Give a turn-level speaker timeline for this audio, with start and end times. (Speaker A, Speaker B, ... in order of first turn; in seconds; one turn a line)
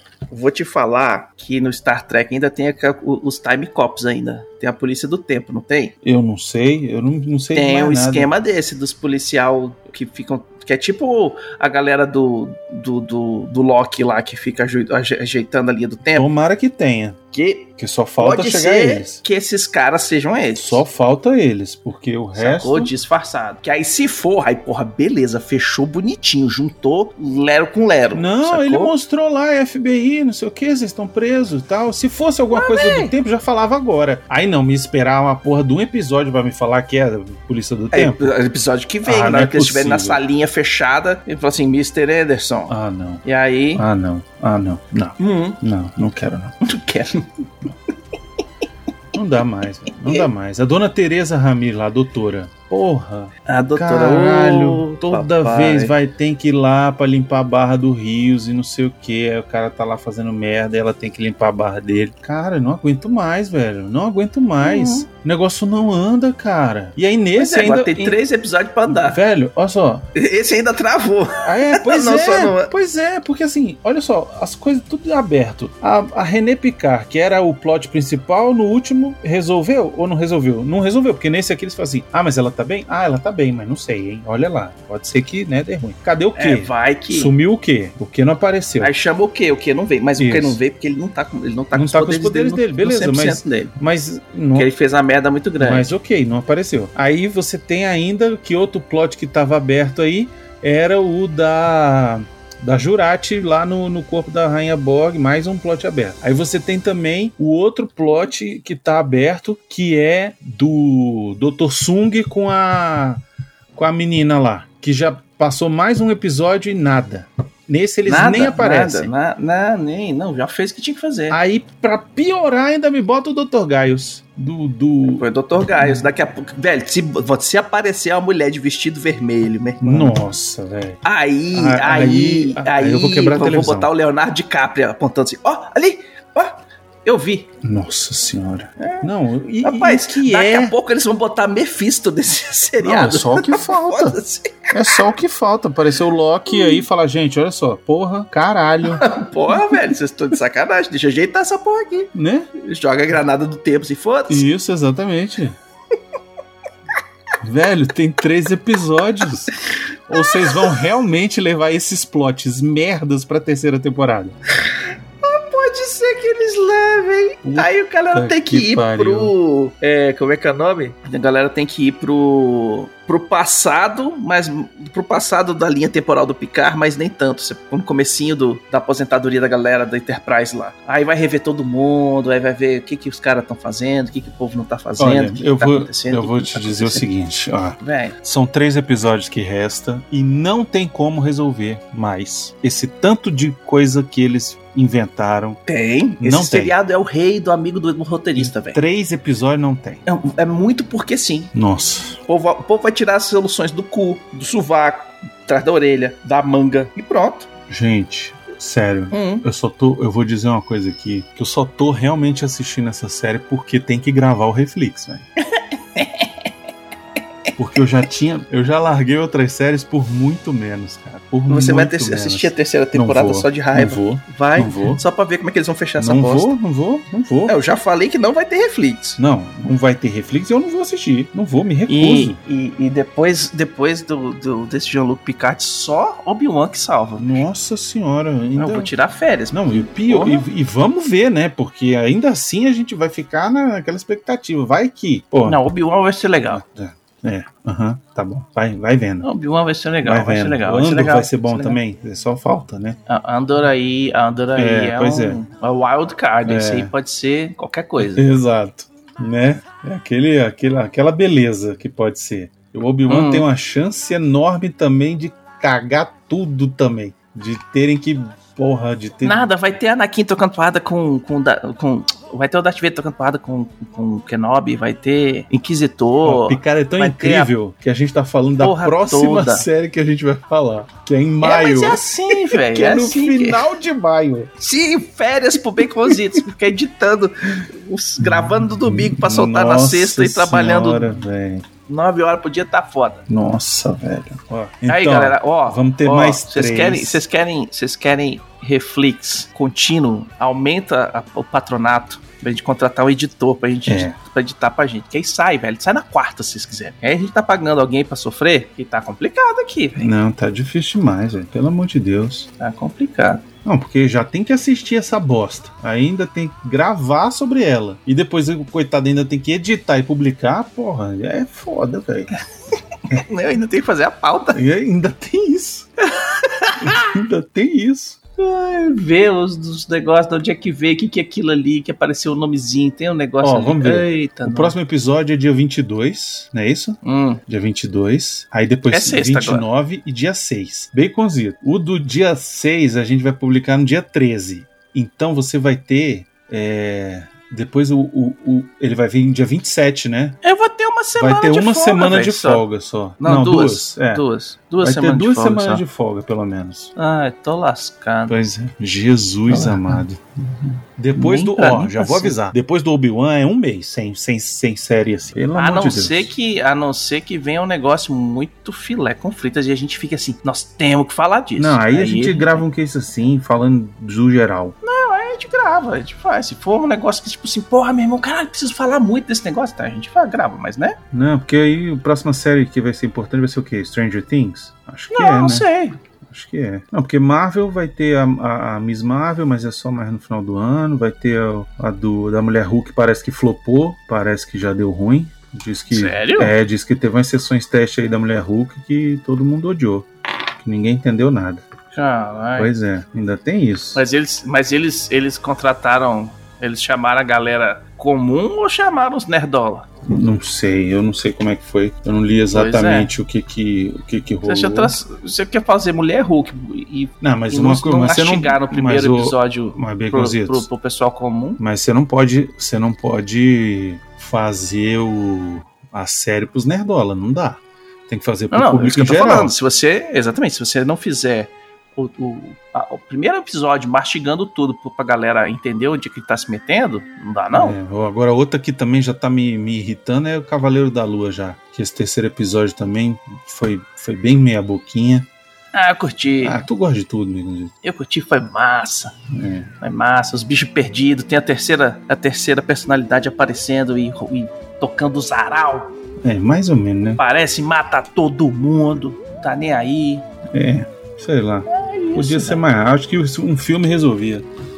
Speaker A: 0.3-5.9
Speaker B: 6.0-8.3
Speaker A: 7.5-16.3
Speaker B: 16.1-17.2
Speaker A: 17.3-20.8
Speaker B: 17.8-19.2
Speaker B: 20.5-22.9
Speaker A: 22.3-28.9
Speaker B: 28.1-38.3
Speaker A: 32.5-33.1
Speaker A: 37.9-43.9
Speaker B: 39.0-40.2
Speaker B: 42.7-43.2
Speaker B: 43.8-46.5
Speaker A: 45.2-45.6
Speaker A: 46.6-47.2
Speaker B: 49.1-68.2
Speaker A: 53.5-55.9
Speaker A: 64.6-65.0
Speaker A: 67.3-69.2
Speaker B: 68.8-70.0
Speaker A: 70.1-72.7
Speaker B: 71.4-88.9
Speaker A: 86.3-87.3
Speaker A: 88.8-93.7
Speaker B: 90.2-90.6
Speaker B: 91.7-94.7
Speaker A: 94.5-95.9
Speaker B: 95.6-113.2
Speaker B: 113.7-119.1
Speaker A: 118.0-121.4
Speaker B: 121.3-126.1
Speaker A: 125.0-130.2
Speaker B: 129.8-131.0
Speaker A: 131.0-137.5
Speaker B: 131.5-133.9
Speaker B: 137.6-140.7
Speaker A: 138.8-139.1
Speaker A: 139.6-145.0
Speaker B: 142.8-144.2
Speaker B: 144.7-149.8
Speaker A: 146.5-146.8
Speaker A: 148.9-154.4
Speaker B: 152.1-152.5
Speaker B: 154.3-155.6
Speaker B: 157.4-159.5
Speaker B: 160.1-164.3
Speaker A: 160.1-160.7
Speaker A: 164.7-187.1
Speaker B: 167.4-169.3
Speaker B: 185.0-195.6
Speaker A: 187.8-188.2
Speaker A: 195.7-198.8
Speaker B: 196.2-196.7
Speaker B: 198.3-200.0
Speaker A: 200.1-201.5
Speaker B: 201.5-202.2
Speaker A: 202.2-207.5
Speaker B: 207.7-215.2
Speaker A: 209.1-209.4
Speaker A: 215.5-216.5
Speaker B: 217.6-225.0
Speaker A: 221.5-226.5
Speaker B: 226.0-227.6
Speaker A: 227.5-229.2
Speaker B: 229.2-232.4
Speaker A: 231.9-237.4
Speaker B: 237.2-238.9
Speaker A: 238.6-240.4
Speaker B: 239.5-245.6
Speaker A: 245.4-246.6
Speaker B: 246.5-249.3
Speaker A: 249.2-251.8
Speaker B: 250.0-253.0
Speaker A: 253.1-258.3
Speaker B: 254.5-255.4
Speaker B: 256.4-256.9
Speaker B: 258.0-269.5
Speaker A: 263.1-263.5
Speaker A: 269.2-277.5
Speaker B: 276.2-284.5
Speaker A: 278.6-279.6
Speaker A: 281.4-283.7
Speaker A: 284.6-291.2
Speaker B: 285.5-286.2
Speaker B: 288.2-291.6
Speaker A: 291.9-293.2
Speaker B: 293.3-297.2
Speaker A: 294.9-310.1
Speaker B: 303.9-304.1
Speaker B: 310.0-312.5
Speaker A: 312.6-313.4
Speaker B: 313.6-322.3
Speaker A: 323.1-324.6
Speaker B: 324.5-325.9
Speaker A: 326.2-326.8
Speaker B: 326.8-328.2
Speaker A: 328.4-334.8
Speaker B: 333.4-350.4
Speaker A: 337.0-337.4
Speaker A: 338.9-339.6
Speaker A: 350.4-352.6
Speaker B: 351.2-354.2
Speaker A: 353.2-355.8
Speaker B: 354.8-356.9
Speaker A: 356.9-358.4
Speaker B: 358.3-360.2
Speaker A: 359.5-360.0
Speaker A: 360.6-362.4
Speaker B: 361.0-366.3
Speaker A: 365.5-372.6
Speaker B: 371.6-374.8
Speaker A: 374.8-381.0
Speaker B: 381.1-385.7
Speaker A: 385.1-386.0
Speaker B: 386.2-400.1
Speaker A: 395.9-396.5
Speaker B: 400.6-401.6
Speaker A: 401.9-402.7
Speaker B: 402.6-404.0
Speaker A: 403.9-409.9
Speaker B: 410.1-414.9
Speaker A: 412.5-413.1
Speaker A: 414.4-421.6
Speaker B: 417.2-420.7
Speaker B: 421.6-429.5
Speaker A: 428.5-437.8
Speaker B: 437.5-445.3
Speaker A: 445.7-446.6
Speaker B: 446.4-447.7
Speaker A: 447.8-449.1
Speaker B: 449.3-449.7
Speaker A: 449.8-455.9
Speaker B: 456.2-457.2
Speaker A: 457.2-460.2
Speaker B: 460.5-464.4
Speaker A: 461.7-462.6